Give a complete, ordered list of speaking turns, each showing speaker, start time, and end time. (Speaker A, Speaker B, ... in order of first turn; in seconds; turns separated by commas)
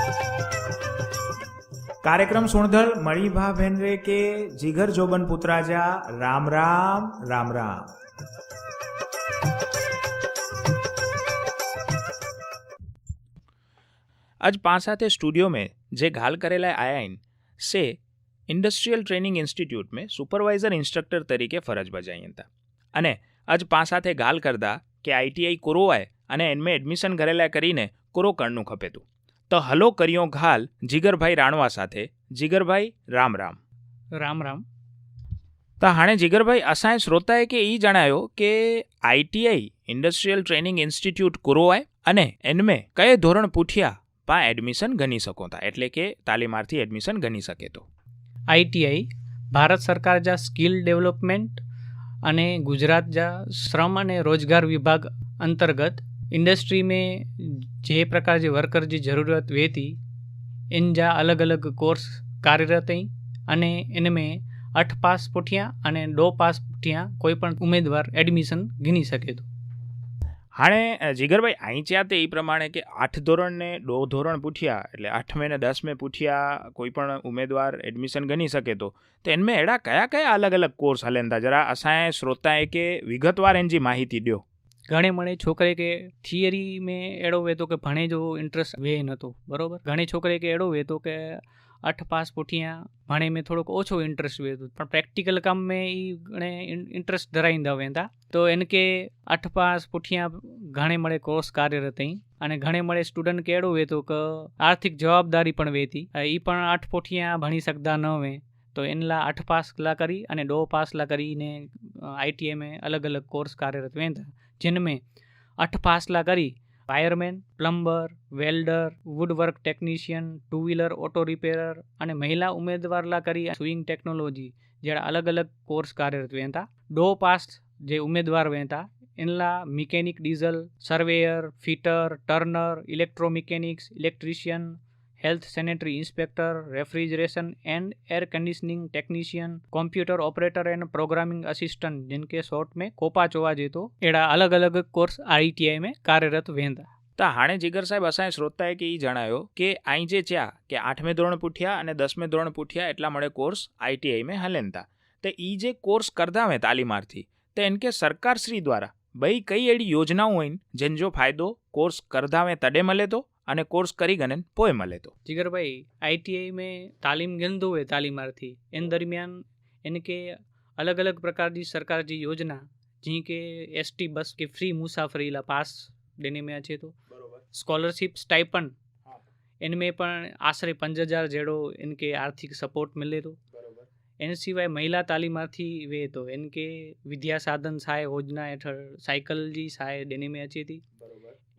Speaker A: 2.0-7.9, Speaker A: 14.4-18.0, Speaker A: 18.5-33.6, Speaker B: 34.2-34.6, Speaker A: 35.8-47.9, Speaker B: 48.5-51.6, Speaker B: 52.2-60.0, Speaker B: 60.7-69.5, Speaker A: 70.5-84.4, Speaker B: 84.9-115.0, Speaker B: 115.6-146.9, Speaker A: 147.2-165.1, Speaker B: 165.3-177.0, Speaker B: 177.5-178.7, Speaker B: 179.6-183.4, Speaker A: 183.6-183.9, Speaker B: 184.2-190.8